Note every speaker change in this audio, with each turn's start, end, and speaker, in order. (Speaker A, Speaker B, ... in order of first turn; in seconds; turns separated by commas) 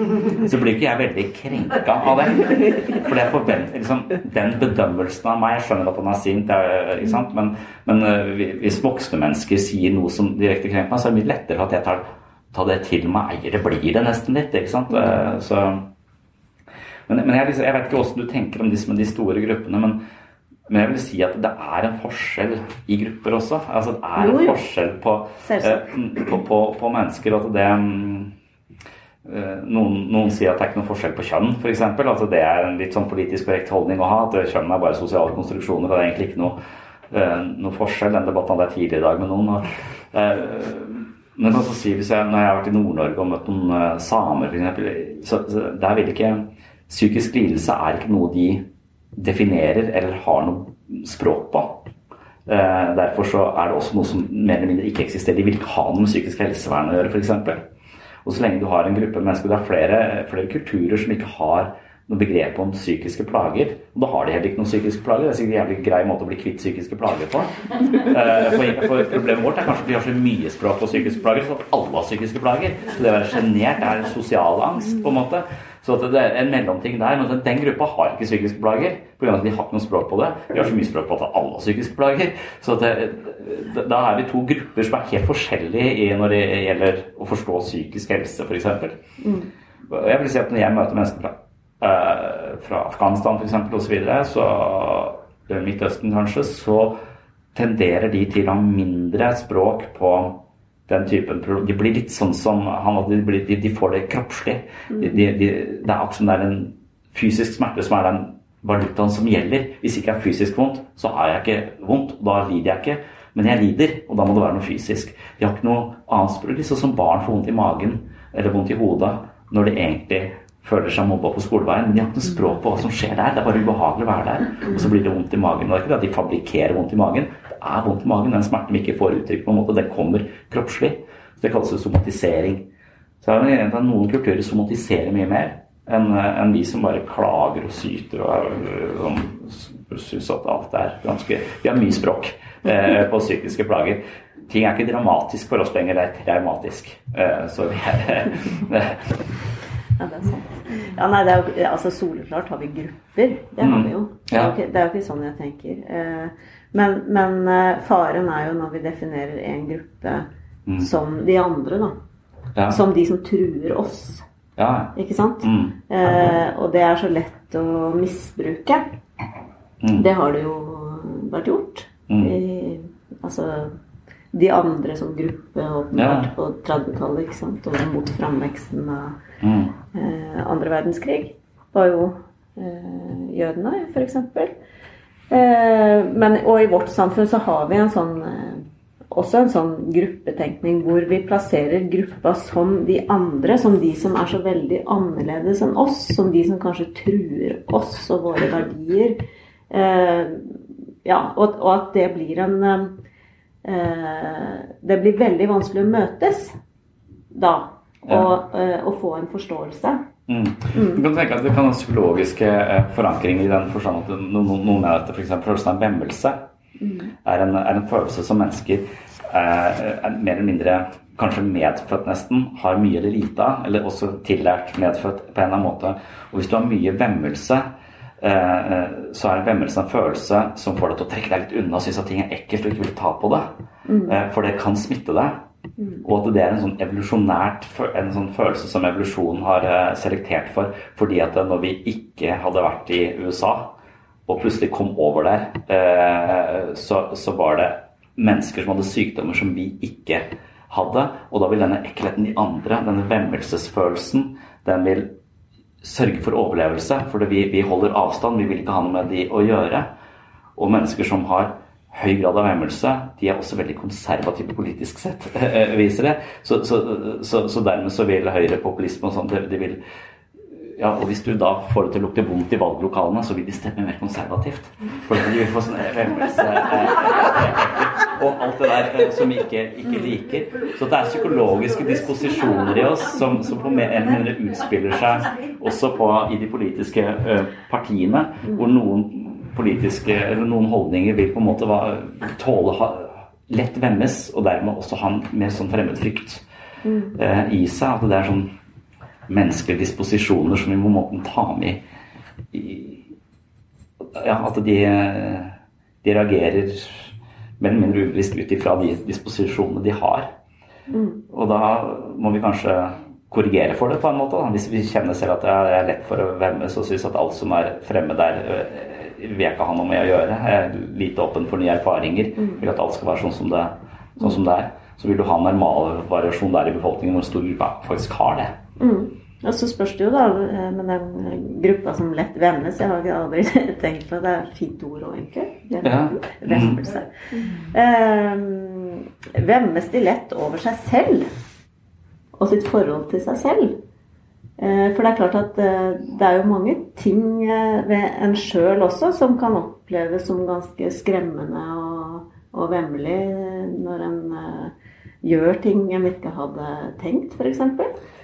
Speaker A: 0.3-15.9, Speaker A: 17.1-20.0, Speaker A: 20.7-28.3, Speaker B: 24.2-24.6, Speaker B: 25.4-25.9, Speaker A: 29.2-36.6, Speaker A: 37.1-51.9, Speaker A: 52.5-57.6, Speaker A: 58.2-89.0, Speaker B: 89.2-89.5, Speaker A: 89.9-97.0, Speaker A: 97.5-132.7, Speaker A: 133.2-149.2, Speaker B: 150.0-160.3, Speaker A: 153.6-154.6, Speaker B: 160.8-162.0, Speaker A: 162.6-162.8, Speaker B: 162.7-164.2, Speaker A: 164.6-165.8, Speaker B: 164.9-169.0, Speaker A: 169.8-170.1, Speaker B: 170.0-173.8, Speaker A: 172.1-172.3, Speaker B: 174.3-179.2, Speaker A: 175.9-176.3, Speaker A: 179.4-179.7, Speaker B: 179.9-184.6, Speaker B: 185.3-203.0, Speaker B: 203.6-206.6, Speaker B: 207.3-210.0, Speaker A: 208.1-208.3, Speaker A: 210.3-216.4, Speaker B: 210.7-211.0, Speaker B: 216.8-217.1, Speaker A: 217.2-233.5, Speaker B: 233.9-234.2, Speaker A: 234.1-235.4, Speaker A: 236.0-243.8, Speaker A: 244.3-255.2, Speaker A: 255.8-259.9, Speaker A: 260.6-269.8, Speaker A: 270.6-296.4, Speaker B: 296.8-297.2, Speaker A: 297.1-298.5, Speaker A: 299.3-301.8, Speaker A: 302.5-303.1, Speaker A: 304.0-310.3, Speaker B: 310.9-311.2, Speaker A: 311.3-328.6, Speaker B: 328.8-341.3, Speaker A: 335.8-336.8, Speaker B: 342.4-343.8, Speaker B: 344.6-358.0